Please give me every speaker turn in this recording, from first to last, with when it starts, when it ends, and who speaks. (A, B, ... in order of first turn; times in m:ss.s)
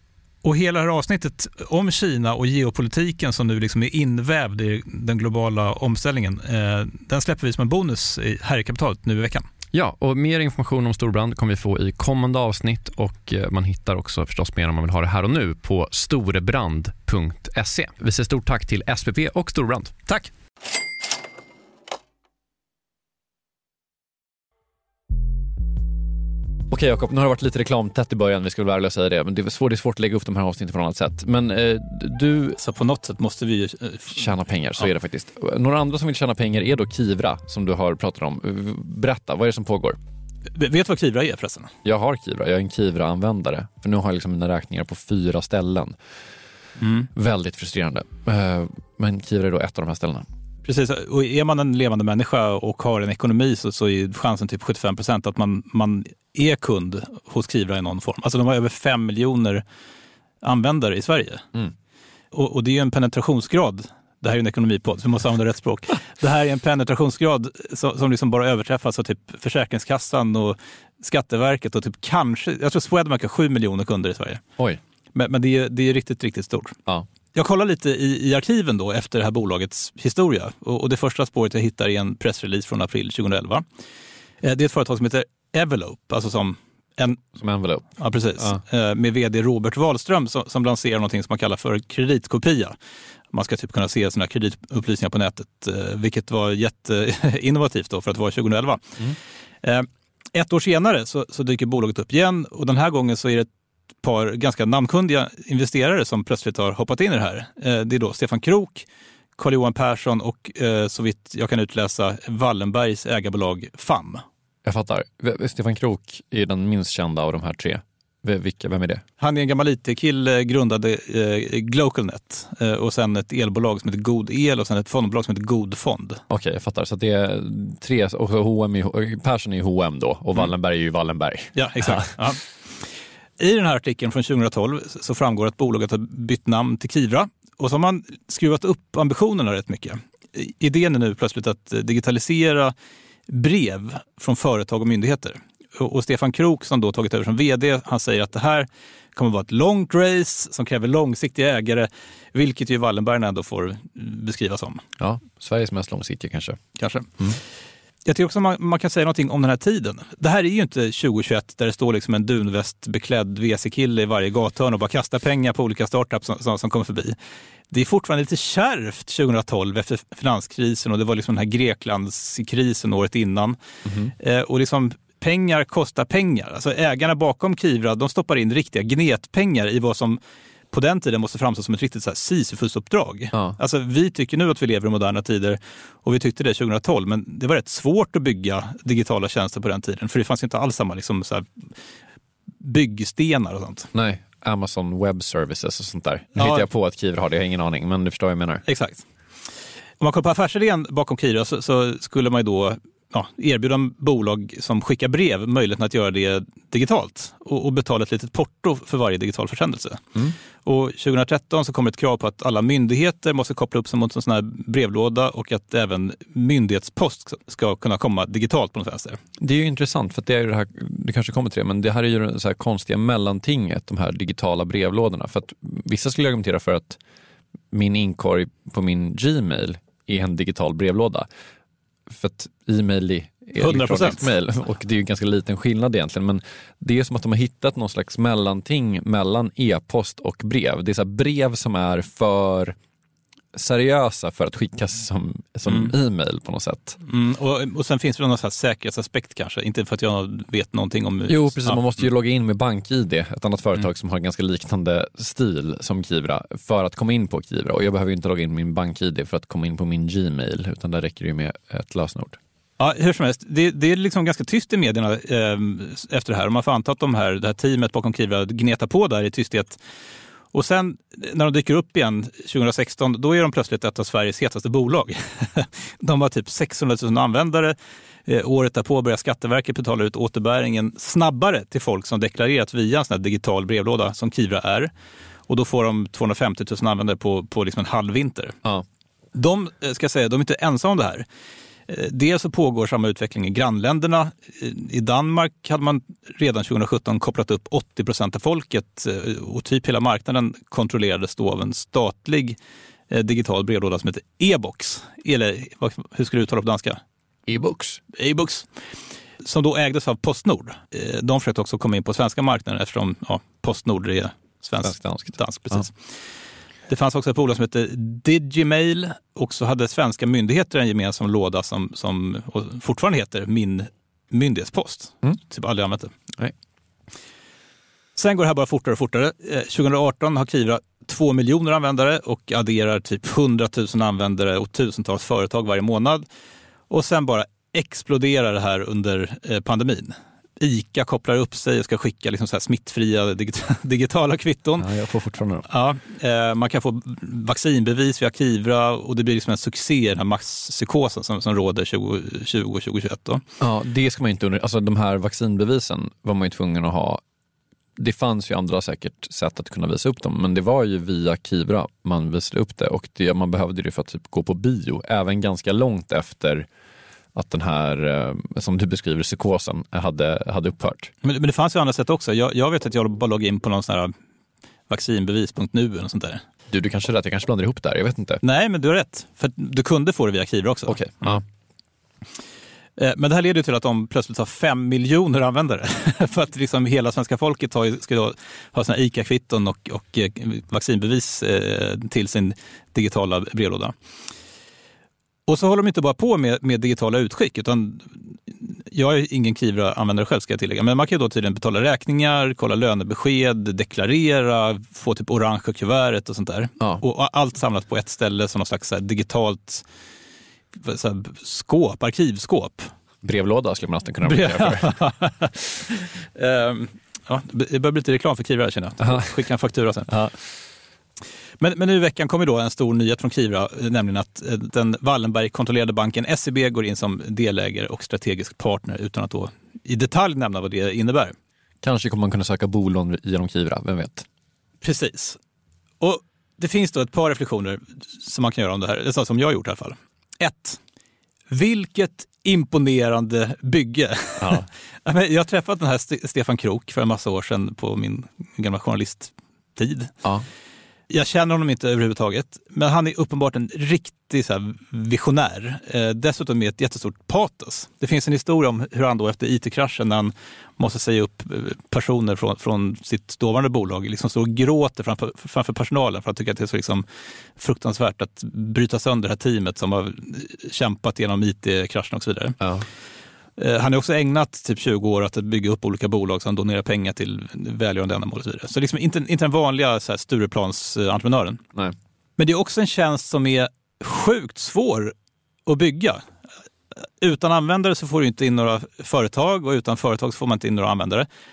0:00.4-0:09.5 A
0:09.7-0:20.0 B
0:26.7-0:32.6 B
0:32.6-0:34.2 A
0:34.1-0:40.0 B
0:40.5-0:41.7 A
0:41.8-0:46.0 B
0:46.8-0:47.1 A
0:47.1-0:50.2 B
0:50.6-0:59.6 A
1:00.4-1:01.4 A
1:02.3-1:14.4 A
1:15.1-1:16.8 A
1:17.3-1:23.6 A
1:24.4-1:27.2 A
1:27.3-1:28.6 B
1:28.0-1:32.8 A
1:33.3-1:38.9 A
1:39.6-1:43.5 A
1:44.0-1:54.2 A
1:54.6-1:59.0 B
1:59.2-2:06.2 A
2:06.3-2:12.1 B
2:11.5-2:12.4 A
2:13.4-2:22.7 A
2:23.3-2:34.8 A
2:35.0-2:36.6 B
2:36.8-2:37.2 A
2:38.0-2:47.2 A
2:47.7-2:53.6 A
2:53.8-2:54.1 B
2:54.2-3:00.2 A
3:00.7-3:11.5 A
3:12.6-3:13.9 A
3:13.9-3:18.6 B
3:16.4-3:16.6 A
3:18.7-3:19.0 A
3:20.0-3:30.0 A
3:30.6-3:39.2 A
3:39.4-3:47.0 B
3:47.7-3:51.3 B
3:52.1-4:02.8 B
3:53.6-3:54.2 A
4:03.5-4:07.0 B
4:05.7-4:05.9 A
4:07.0-4:11.8 A
4:11.3-4:22.4 B
4:22.8-4:29.8 A
4:30.5-4:44.9 A
4:45.5-4:48.6 A
4:49.3-4:51.2 A
4:51.9-5:02.6 A
5:03.1-5:07.0 A
5:07.5-5:08.0 B
5:08.1-5:08.7 A
5:09.4-5:15.9 A
5:14.8-5:15.8 B
5:16.9-5:26.1 A
5:28.2-5:36.2 A
5:36.9-5:44.8 A
5:44.8-5:45.7 B
5:45.7-5:53.4 A
5:53.6-5:57.2 B
5:58.0-6:06.7 B
6:07.3-6:11.1 B
6:11.2-6:14.1 A
6:14.9-6:16.4 A
6:16.7-6:18.4 B
6:18.4-6:21.4 A
6:20.9-6:21.4 B
6:23.0-6:33.9 A
6:35.5-6:49.8 A
6:50.8-6:52.9 A
6:53.2-6:54.9 B
6:54.2-7:00.2 A
6:59.0-6:59.3 B
7:00.1-7:00.3 B
7:01.6-7:11.3 A
7:11.8-7:14.2 B
7:14.8-7:15.4 A
7:16.0-7:20.8 A
7:21.5-7:30.1 A
7:24.4-7:24.7 B
7:31.1-7:47.0 A
7:47.6-7:52.6 A
7:52.6-7:52.8 B
7:53.6-8:01.6 A
8:02.4-8:05.1 A
8:05.6-8:06.2 A
8:06.9-8:11.3 A